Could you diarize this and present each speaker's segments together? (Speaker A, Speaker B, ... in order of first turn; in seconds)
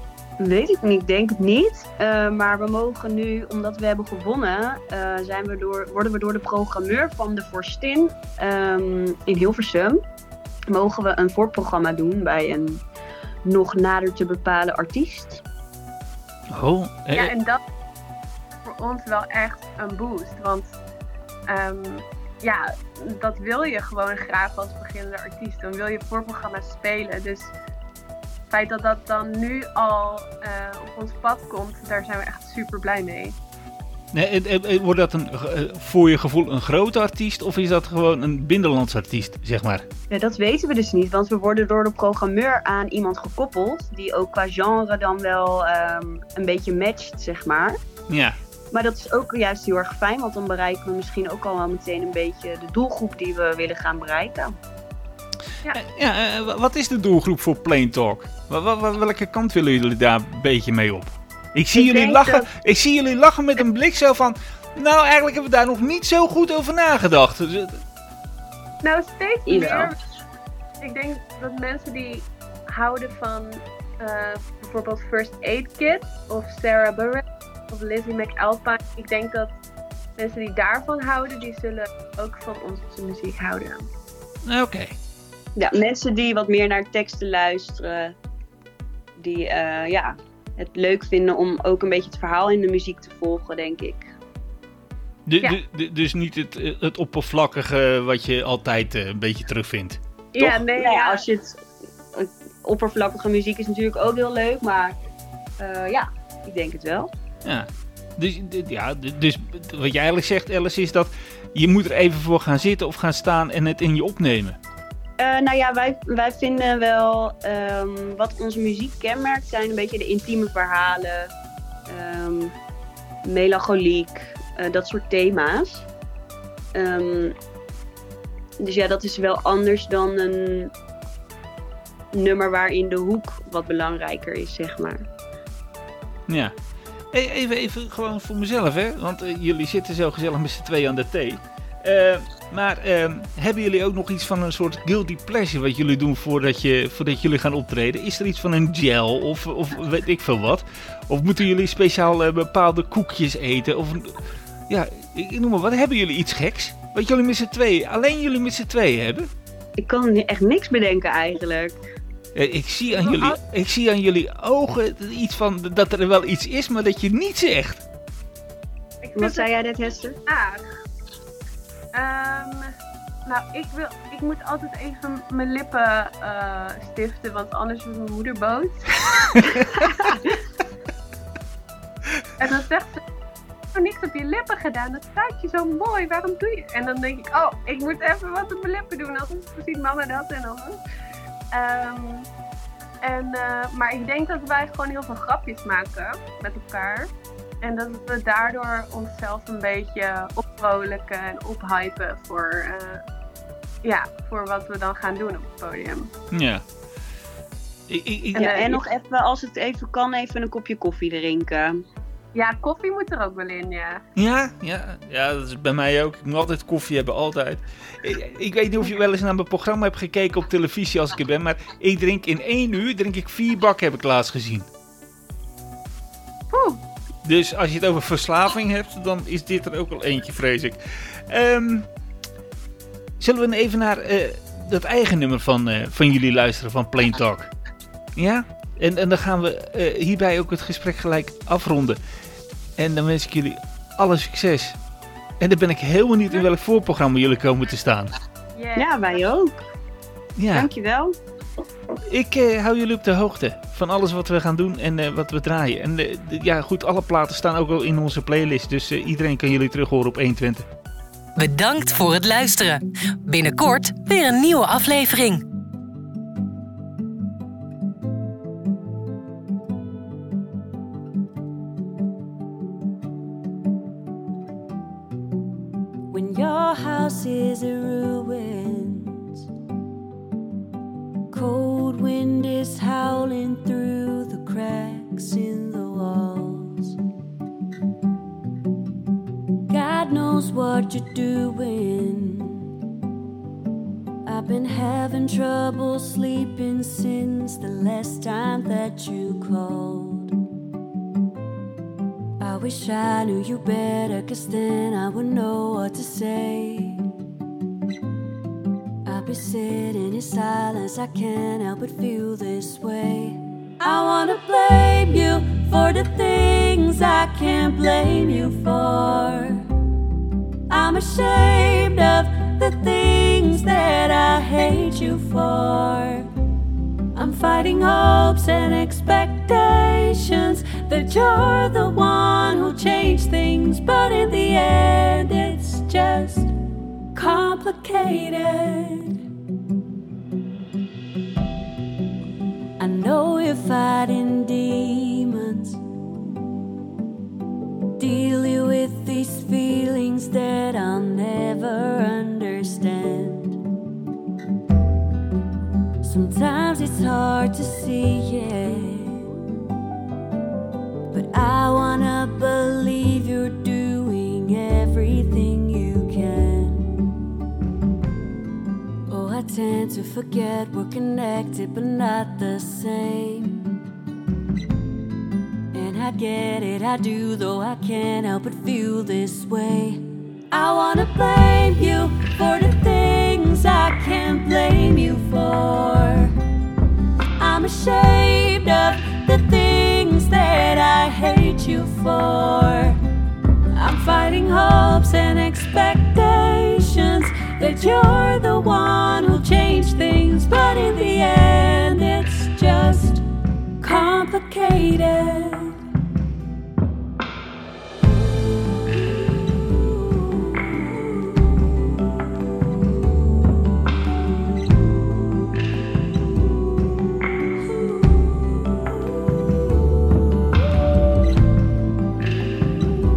Speaker A: 0.4-10.0, 10.7-12.8, 13.4-15.4, 40.1-47.8, 48.7-54.5, 69.5-70.0, 85.5-88.1, 89.2-94.1, 100.4-101.6, 102.1-105.0, 105.6-107.1, 115.2-121.3, 121.9-122.5, 123.2-125.9, 126.7-127.3, 128.6-130.7, 132.1-135.1, 159.8-161.8, 169.2-170.2, 208.3-211.8, 248.8-249.6, 250.5-251.2
Speaker B: 16.5-17.3, 34.1-39.8, 48.1-48.4, 55.7-67.8, 84.5-84.9, 95.2-100.0, 108.2-114.6, 136.3-136.5, 137.1-159.3, 162.3-167.8, 206.3-206.6, 207.9-208.7, 214.2-224.7, 227.2-231.8, 233.2-237.5, 238.2-242.0, 242.8-244.8, 245.4-248.1, 250.4-250.7, 252.1-260.7
Speaker C: 17.1-17.6, 18.6-20.8, 21.5-27.5, 28.5-33.4, 61.8-62.5, 68.8-69.9, 70.8-79.5, 80.2-83.9, 100.3-101.2, 162.9-163.4, 169.0-169.4, 170.3-170.7, 171.9-172.7, 173.2-180.4, 182.4-183.0, 183.7-190.8, 191.5-192.2, 193.0-197.1, 197.6-203.0, 203.8-206.1, 208.4-208.8, 212.3-214.0, 226.5-226.8, 248.5-249.2
Speaker D: 261.4-265.4
Speaker E: 276.1-279.4, 281.3-286.9, 289.7-292.6, 294.2-300.3, 302.4-307.0, 309.0-319.7, 320.7-326.3, 327.1-336.5, 337.1-339.2, 342.8-345.8, 348.0-353.6, 356.0-359.2, 361.1-367.1, 369.1-373.7, 375.7-386.3, 387.4-393.0, 393.7-403.2, 403.8-405.8